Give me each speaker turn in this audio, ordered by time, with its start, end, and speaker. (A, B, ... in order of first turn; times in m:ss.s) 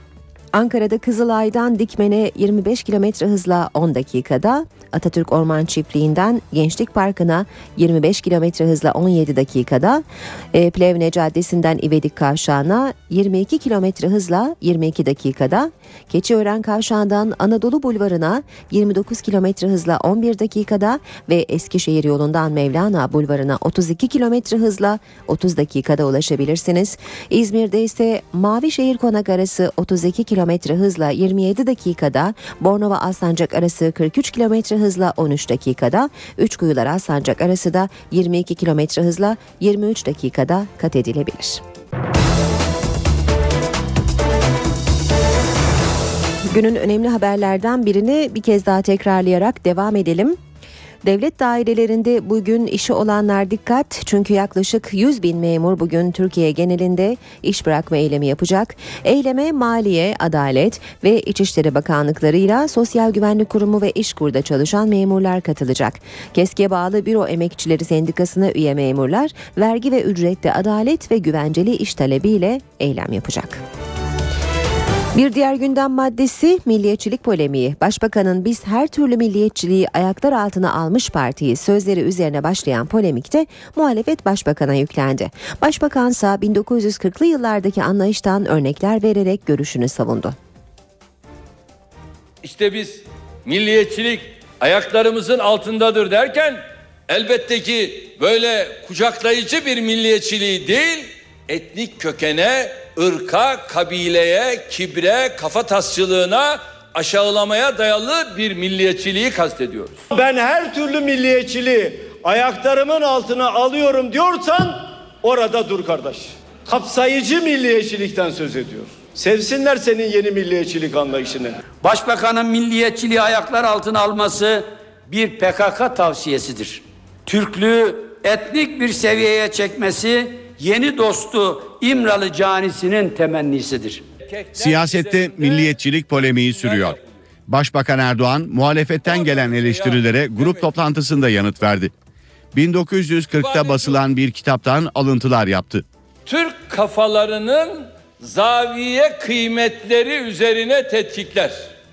0:00.5-0:41.6 A
0:46.5-0:50.4 A
0:51.0-1:13.6 A
1:15.1-1:30.4 A
1:32.4-1:50.0 B
1:50.1-2:01.6 C
2:01.7-2:14.0 D
2:14.3-2:15.8 B
2:14.6-2:17.0 E
2:16.6-2:17.0 B
2:17.5-2:21.9 E
2:19.0-2:20.7 B
2:22.5-2:25.8 E
2:23.4-2:24.0 B
2:26.3-2:31.7 B